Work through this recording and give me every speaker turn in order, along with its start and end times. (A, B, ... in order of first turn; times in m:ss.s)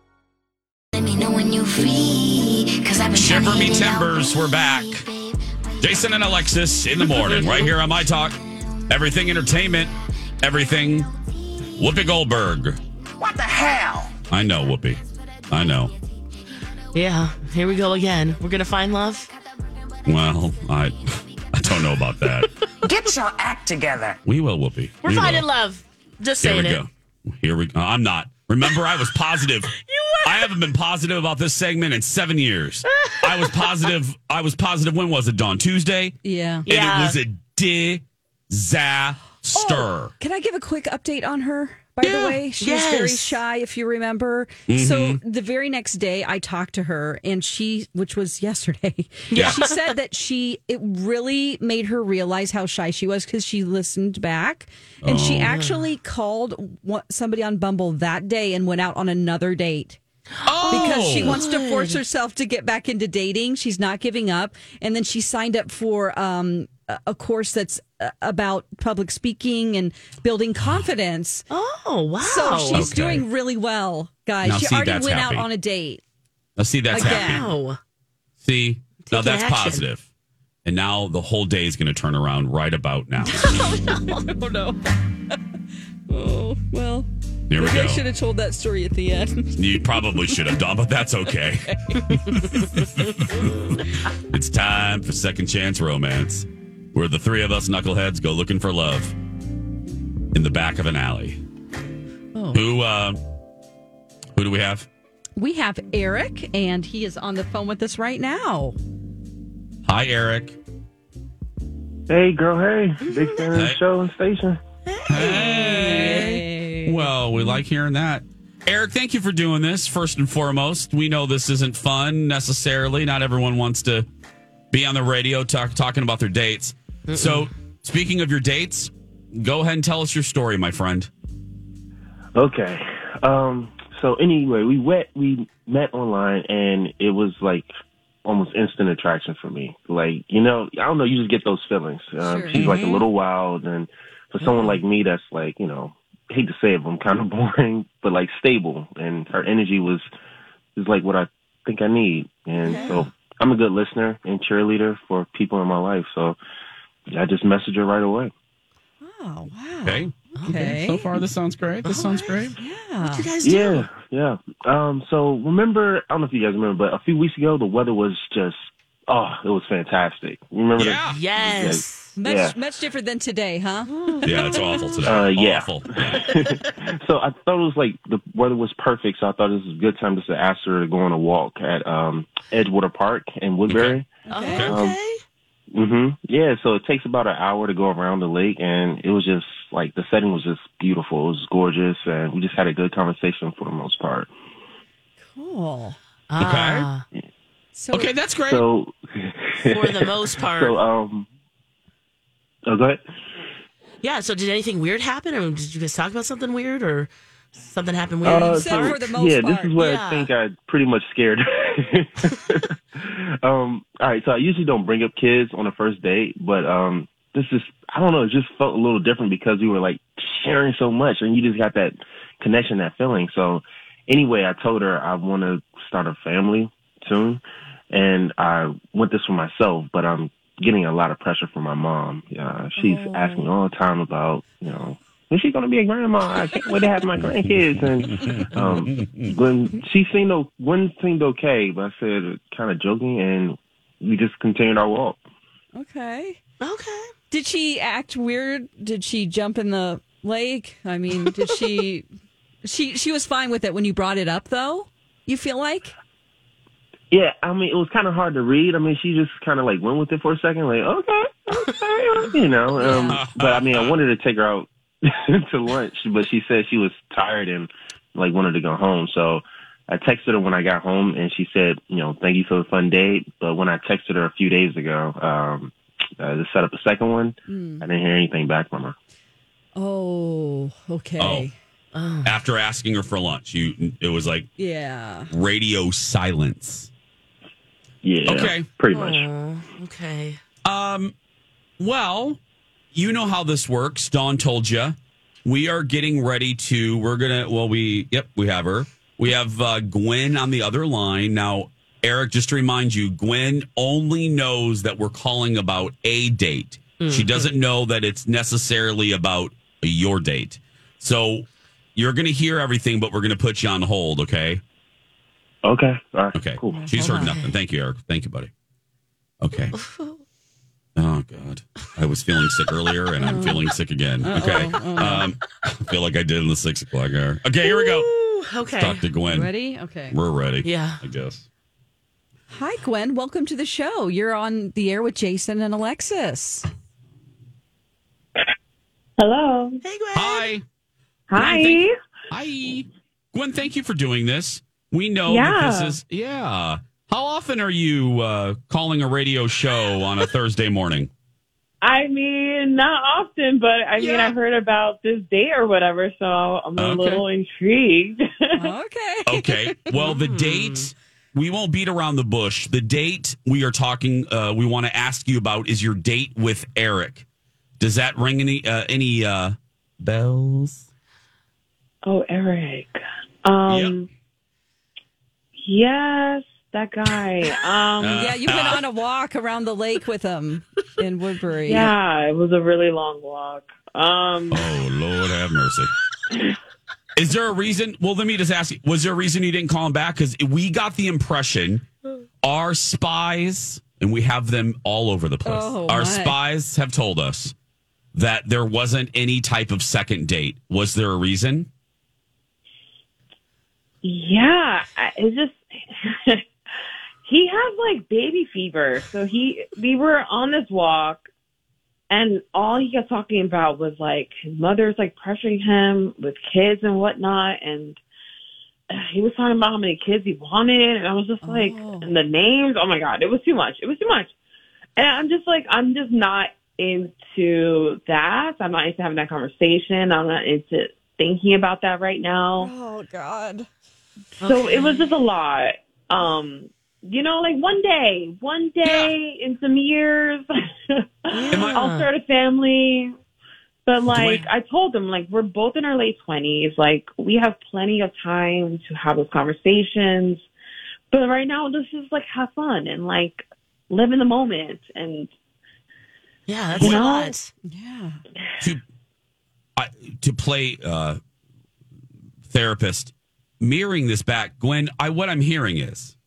0:01.0-0:06.2 A
0:03.2-0:05.1 B
0:05.8-0:11.1 B
0:07.1-0:07.7 C
0:11.7-0:12.8 B
0:13.2-0:14.1 D
0:14.3-0:15.9 B
0:16.9-0:19.3 C
0:20.0-0:22.5 B
0:22.8-0:24.2 D
0:24.2-0:25.5 B
0:25.0-0:26.8 C
0:26.4-0:40.1 B
0:29.8-0:30.6 C
0:33.0-0:33.5 C
0:36.2-0:36.7 E
0:36.7-0:37.2 C
0:39.5-1:00.0 E
0:42.0-0:43.4 C
0:44.7-0:45.2 B
0:49.3-0:49.8 C
0:55.0-0:55.5 B
0:55.5-0:55.8 C
1:00.4-1:02.0 C
1:00.4-1:01.4 B
1:00.7-1:11.5 E
1:11.5-1:12.9 C
1:12.2-1:16.0 E
1:12.7-1:13.2 B
1:14.4-1:15.5 B
1:16.6-1:17.5 B
1:16.9-1:17.4 E
1:17.0-1:17.8 C
1:18.4-1:20.0 B
1:19.0-1:19.8 C
1:20.6-1:23.7 B
1:23.4-1:25.0 E
1:26.1-1:30.4 E
1:27.5-1:28.0 B
1:29.6-1:39.2 B
1:40.3-1:41.4 B
1:42.3-1:42.6 E
1:42.5-1:43.2 B
1:44.4-1:44.9 B
1:45.4-1:48.8 E
1:49.8-1:50.6 B
1:52.1-1:54.6 F
1:53.0-1:53.4 C
1:53.5-1:53.8 B
1:54.9-1:56.4 C
1:55.1-2:04.1 B
1:55.2-1:57.1 E
2:04.7-2:11.1 B
2:07.1-2:07.5 C
2:12.4-2:17.7 F
2:18.2-2:30.1 F
2:22.2-2:22.7 E
2:22.6-2:22.9 B
2:30.8-2:36.4 F
2:32.6-2:33.0 E
2:32.7-2:33.0 C
2:37.1-2:38.3 F
2:39.0-2:41.1 E
2:39.9-2:42.6 B
2:40.4-2:40.7 C
2:41.8-2:43.9 C
2:42.6-2:43.3 E
2:43.4-2:52.6 F
2:50.8-2:51.2 B
2:51.1-2:52.1 C
2:52.2-2:53.9 E
2:53.9-2:54.6 C
2:54.2-2:56.3 B
2:55.1-3:04.2 F
3:03.7-3:04.8 B
3:04.3-3:04.7 E
3:04.3-3:05.2 C
3:04.7-3:05.0 F
3:05.7-3:14.3 F
3:15.3-3:16.0 E
3:16.3-3:17.0 C
3:16.4-3:16.9 B
3:17.8-3:18.1 E
3:17.9-3:18.6 B
3:18.5-3:21.3 F
3:19.7-3:20.8 C
3:22.7-3:23.0 F
3:24.0-3:29.0 C
3:28.2-4:05.2 F
3:28.4-3:29.7 E
3:29.8-3:30.3 C
3:52.8-3:53.5 E
3:57.4-3:59.3 B
4:05.8-4:06.4 E
4:06.6-4:07.1 C
4:07.3-4:12.1 E
4:12.6-4:15.9 E
4:17.1-4:39.0 F
4:22.8-4:23.2 E
4:23.1-4:24.0 B
4:37.5-4:37.8 E
4:39.8-4:41.6 E
4:41.2-4:41.5 B
4:41.9-4:42.4 C
4:42.2-4:44.5 B
4:44.6-4:45.3 E
4:45.3-4:46.9 B
4:48.0-4:49.3 F
4:48.2-4:48.7 B
4:48.9-4:50.4 C
4:50.6-4:51.1 B
4:51.8-4:52.4 B
4:52.9-5:14.6 B
5:07.0-5:07.5 C
5:15.6-5:17.0 F
5:16.3-5:18.5 B
5:16.7-5:17.5 E
5:17.0-5:17.3 C
5:19.4-5:19.8 B
5:19.8-5:20.2 C
5:21.0-5:28.1 B
5:23.2-5:23.7 E
5:24.2-5:25.3 E
5:27.6-5:29.0 C
5:28.8-5:29.5 B
5:29.3-5:30.2 E
5:30.1-5:31.4 B
5:30.6-5:31.0 C
5:32.5-5:36.7 E
5:39.2-5:39.8 G
5:39.8-5:40.5 C
5:40.1-5:40.6 B
5:41.3-5:41.9 G
5:41.4-5:51.1 B
5:45.3-5:46.0 G
5:51.8-5:58.7 G
5:56.8-5:57.2 B
5:58.6-5:59.8 E
5:59.3-6:07.2 B
5:59.9-6:00.9 C
6:07.8-6:10.9 B
6:12.0-6:14.1 G
6:13.7-6:13.9 B
6:15.6-6:18.3 G
6:18.0-6:18.8 B
6:18.1-6:21.9 E
6:21.7-6:24.7 G
6:24.5-6:25.9 B
6:27.2-6:31.9 B
6:32.4-6:37.6 B
6:35.5-6:36.4 E
6:38.1-6:41.7 B
6:44.0-6:46.5 G
6:47.2-6:51.3 G
6:52.1-6:58.0 G
6:58.9-7:04.3 G
7:01.4-7:02.2 E
7:05.0-7:12.7 G
7:12.6-7:13.7 E
7:14.4-7:15.1 C
7:14.4-7:23.1 G
7:18.8-7:19.1 B
7:21.3-7:22.1 C
7:21.5-7:21.8 B
7:23.9-7:30.5 G
7:24.1-7:24.5 B
7:31.1-7:35.3 G
7:36.5-7:37.5 C
7:36.7-7:37.4 G
7:37.7-7:38.2 E
7:39.8-7:41.2 B
7:42.5-7:46.2 B